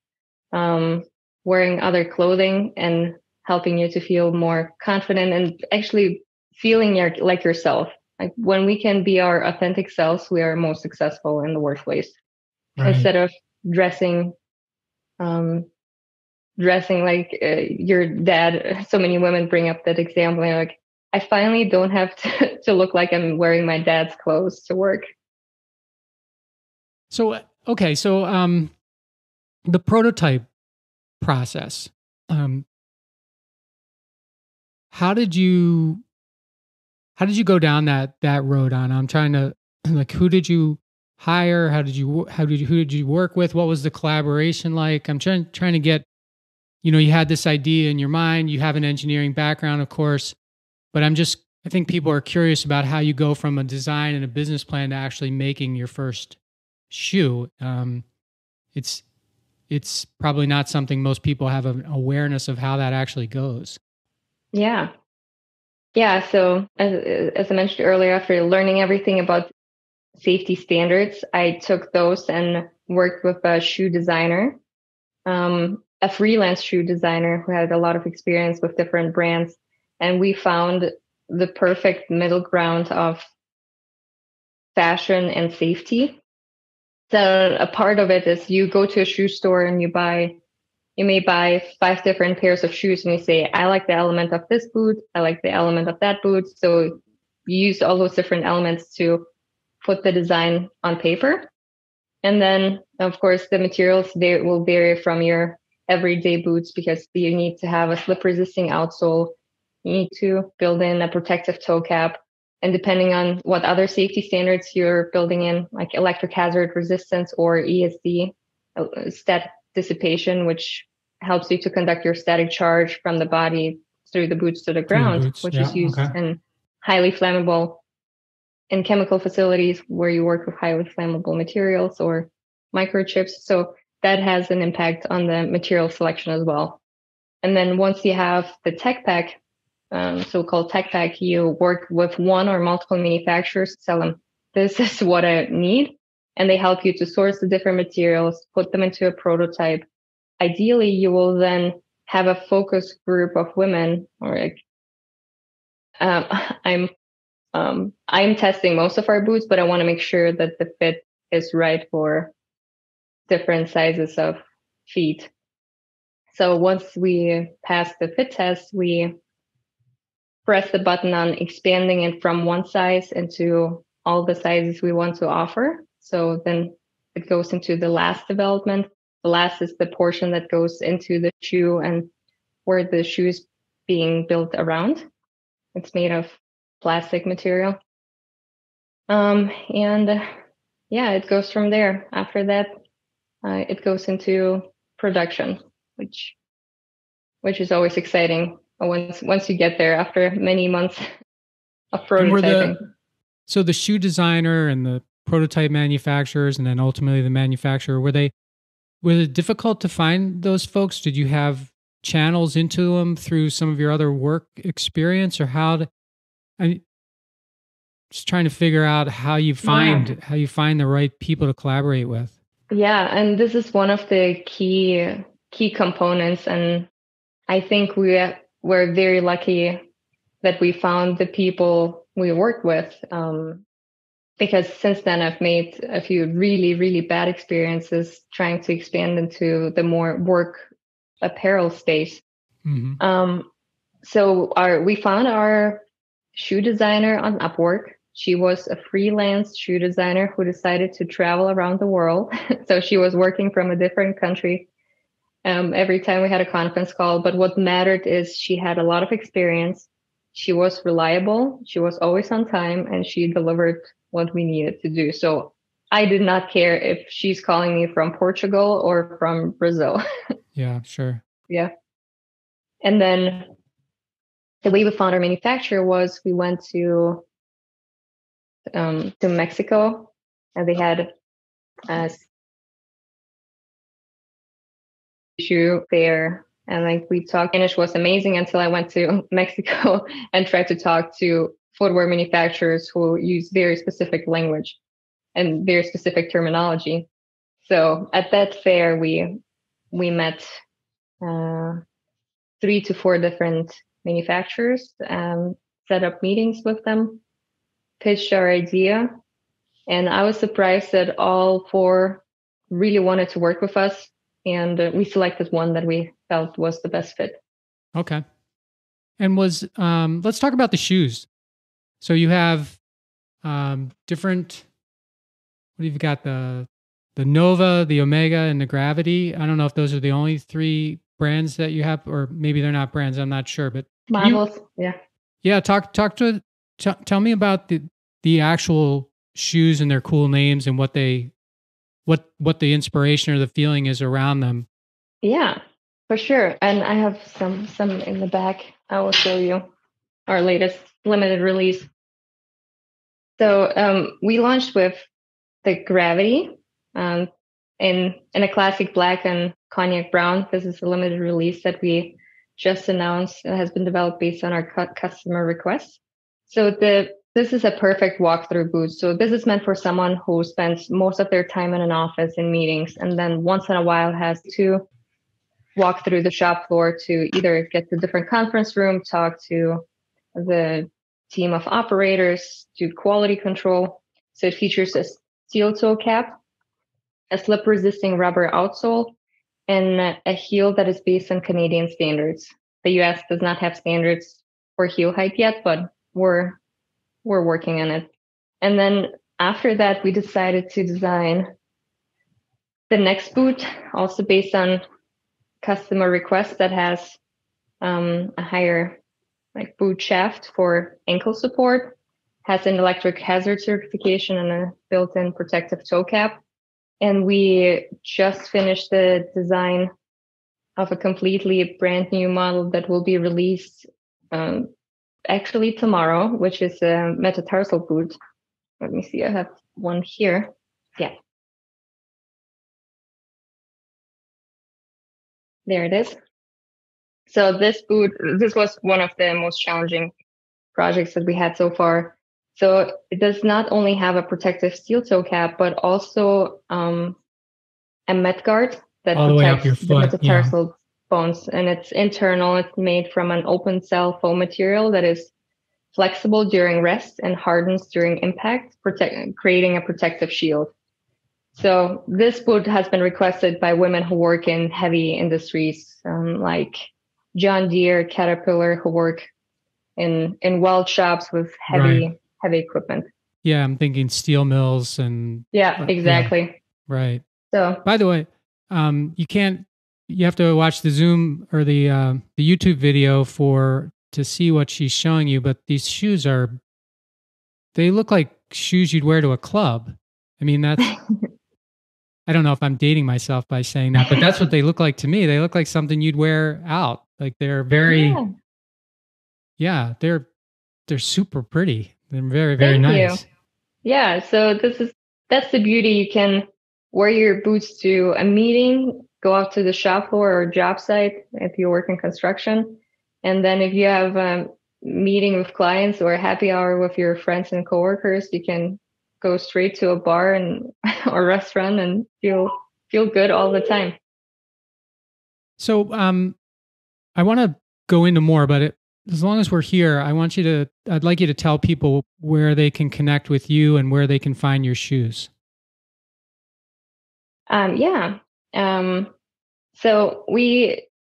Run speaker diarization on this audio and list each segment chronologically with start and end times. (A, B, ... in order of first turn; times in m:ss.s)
0:00.5-0:12.2 A
0:12.8-0:13.1 B
0:12.8-0:14.4 A
0:15.2-0:15.7 A
0:16.6-0:25.0 A
0:27.1-0:28.7 B
0:29.7-0:30.5 B
0:31.2-0:32.6 B
0:34.9-0:36.0 B
0:37.2-0:46.1 B
0:46.8-0:50.4 B
0:50.9-0:56.4 B
0:56.9-0:58.0 B
0:58.7-0:59.0 B
0:59.7-1:03.8 B
1:04.5-1:04.9 A
1:06.0-1:09.5 A
1:10.2-1:14.6 A
1:15.3-1:23.3 A
1:24.8-1:26.2 A
1:27.1-1:30.4 A
1:31.0-1:39.3 A
1:39.8-1:41.5 A
1:42.2-2:07.8 A
2:04.9-2:06.1 B
2:08.7-2:16.8 A
2:17.4-2:19.4 A
2:19.9-2:29.8 A
2:30.4-2:34.6 A
2:36.0-2:36.9 A
2:37.5-2:42.3 A
2:43.3-2:45.3 A
2:46.3-2:49.2 A
2:50.5-3:02.1 A
3:02.7-3:05.0 A
3:05.8-3:07.8 A
3:09.1-3:10.2 A
3:10.9-3:12.8 A
3:13.4-3:16.4 A
3:17.4-3:21.0 A
3:21.9-3:22.8 A
3:22.2-3:22.7 B
3:23.5-3:28.3 B
3:29.0-3:35.9 B
3:38.1-3:42.3 B
3:39.6-3:40.2 A
3:42.7-3:46.9 A
3:47.5-3:49.8 A
3:50.4-3:53.6 A
3:54.4-4:00.6 A
4:01.2-4:02.2 A
4:02.6-4:03.0 B
4:03.0-4:03.5 A
4:04.0-4:05.8 A
4:06.4-4:14.7 A
4:15.4-4:30.0 A
4:30.6-4:31.2 B
4:32.8-4:33.5 A
4:34.6-4:37.2 A
4:38.7-4:41.1 A
4:41.9-4:42.2 A
4:45.4-4:54.8 A
4:55.4-4:57.1 A
4:57.6-4:59.4 A
4:59.9-5:00.6 A
5:01.2-5:01.8 A
5:02.6-5:07.2 A
5:08.0-5:09.1 A
5:09.9-5:17.4 A
5:18.0-5:18.2 B
5:19.2-5:21.3 B
5:22.0-5:22.8 B
5:23.4-5:24.6 B
5:25.8-5:34.4 B
5:34.1-5:35.0 A
5:35.4-5:41.3 B
5:42.1-5:44.7 B
5:45.2-5:49.7 A
5:50.3-5:51.9 A
5:53.4-5:55.1 A
5:55.6-6:14.8 A
6:15.8-6:19.8 A
6:20.4-6:26.4 A
6:27.3-6:29.2 A
6:29.7-6:36.6 A
6:37.2-6:38.1 A
6:38.6-6:41.5 A
6:42.9-6:44.8 A
6:45.6-6:47.2 A
6:47.8-6:49.0 A
6:49.6-6:56.4 A
6:57.0-6:59.9 A
7:00.8-7:04.7 A
7:05.3-7:08.2 A
7:08.8-7:11.1 A
7:15.7-7:16.2 A
7:17.3-7:20.1 A
7:20.8-7:27.2 A
7:28.1-7:35.3 A
7:29.2-7:30.5 B
7:35.9-7:40.7 A
7:41.5-7:49.3 A
7:50.0-7:53.1 A
7:51.7-7:52.0 B
7:53.4-7:56.3 B
7:55.5-7:56.6 A
7:56.9-7:57.2 B
7:57.5-7:57.8 A
7:57.8-8:06.6 B
8:07.7-8:11.0 B
8:10.8-8:11.2 A
8:12.3-8:18.2 B
8:14.0-8:14.2 A
8:17.9-8:18.3 A
8:19.6-8:20.3 B
8:20.9-8:23.2 B
8:22.6-8:23.2 A
8:23.8-8:44.0 A
8:45.6-8:46.4 B
8:47.2-8:55.3 B
8:57.5-8:59.1 A
8:59.7-9:00.9 A